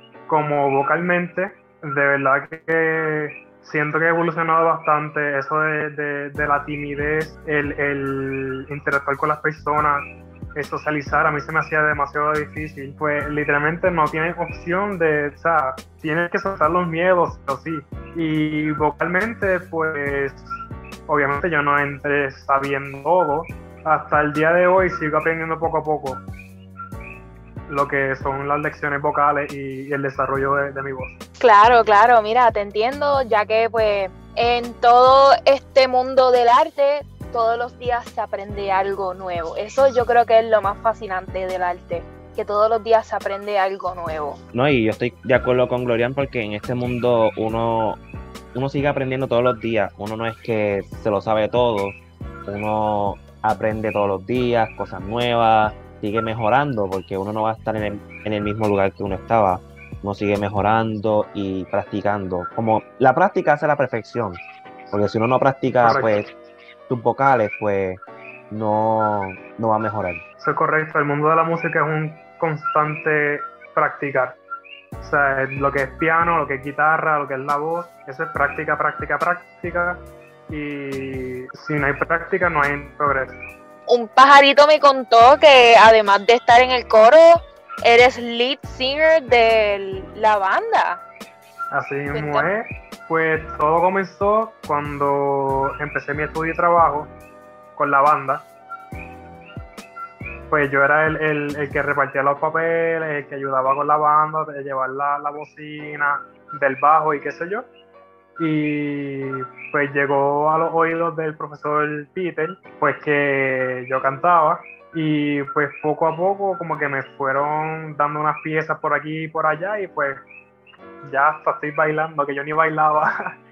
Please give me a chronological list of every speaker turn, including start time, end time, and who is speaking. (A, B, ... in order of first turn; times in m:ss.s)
0:00.3-0:26.2 A
0:27.7-0:31.2 A
0:31.4-0:44.4 B
0:44.5-0:48.0 C
0:48.5-1:04.4 C
1:04.9-1:06.3 C
1:05.8-1:06.3 A
1:06.9-1:10.2 C
1:10.4-1:14.4 A
1:15.0-1:23.5 A
1:23.9-1:31.0 B
1:31.7-1:37.1 A
1:32.1-1:32.5 B
1:37.8-1:38.4 A
1:40.5-1:47.7 A
1:48.4-2:00.2 A
2:01.0-2:03.1 A